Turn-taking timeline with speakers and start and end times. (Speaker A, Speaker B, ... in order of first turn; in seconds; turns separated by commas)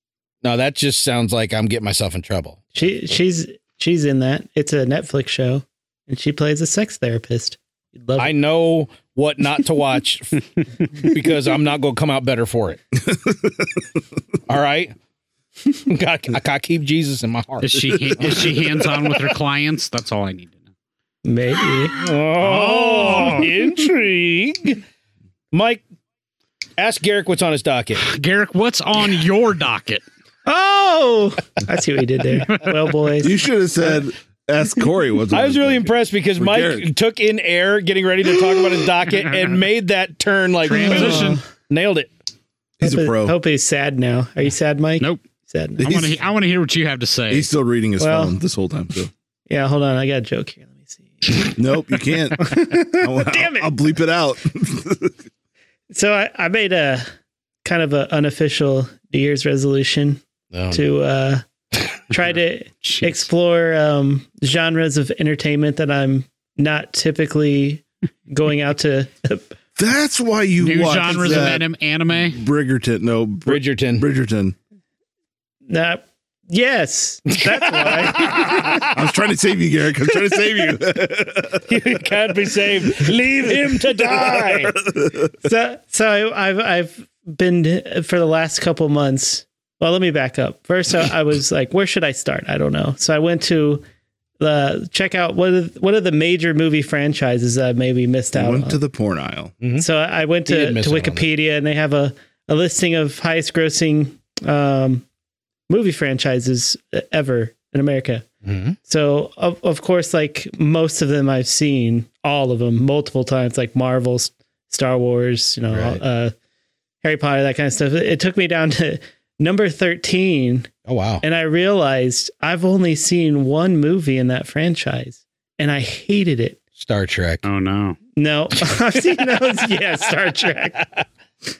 Speaker A: 0.4-2.6, Speaker B: 2.8-8.3, Speaker A: 8.2-10.4, Speaker A: 10.9-12.8, Speaker C: 13.0-13.9, Speaker A: 14.5-14.9, Speaker A: 15.9-19.1, Speaker D: 17.6-20.6, Speaker B: 21.2-22.0, Speaker A: 21.9-24.8, Speaker D: 22.4-23.5, Speaker A: 25.5-25.8, Speaker A: 26.8-28.0, Speaker D: 28.0-30.0, Speaker B: 30.5-33.4, Speaker C: 33.2-36.9, Speaker A: 35.3-42.1, Speaker D: 39.1-39.6, Speaker D: 40.7-41.4, Speaker B: 40.7-41.4, Speaker C: 42.8-43.4, Speaker B: 42.8-45.9, Speaker C: 45.8-46.2, Speaker D: 45.8-47.5, Speaker C: 47.3-49.1, Speaker B: 48.0-48.4, Speaker B: 49.5-51.6, Speaker C: 51.6-55.2, Speaker B: 52.4-53.7, Speaker B: 55.9-57.1, Speaker B: 57.6-60.2, Speaker A: 60.5-60.9, Speaker B: 60.7-61.4, Speaker B: 62.1-69.5, Speaker D: 62.8-63.3, Speaker C: 69.8-74.5, Speaker D: 70.6-72.4, Speaker A: 73.5-74.0, Speaker B: 75.7-78.9, Speaker A: 77.3-79.0, Speaker C: 78.8-81.8, Speaker A: 81.7-84.8, Speaker C: 84.1-85.3, Speaker B: 85.4-93.8, Speaker B: 94.4-98.8, Speaker C: 98.3-99.5, Speaker A: 99.6-99.9, Speaker B: 99.8-105.0, Speaker A: 100.5-101.3, Speaker B: 105.7-108.3, Speaker A: 108.4-108.8, Speaker B: 108.9-116.3, Speaker A: 115.7-116.0, Speaker B: 117.0-120.7, Speaker A: 120.9-121.2, Speaker B: 121.2-126.6, Speaker A: 126.8-127.4, Speaker D: 127.4-128.0, Speaker B: 128.2-130.8, Speaker A: 130.8-131.0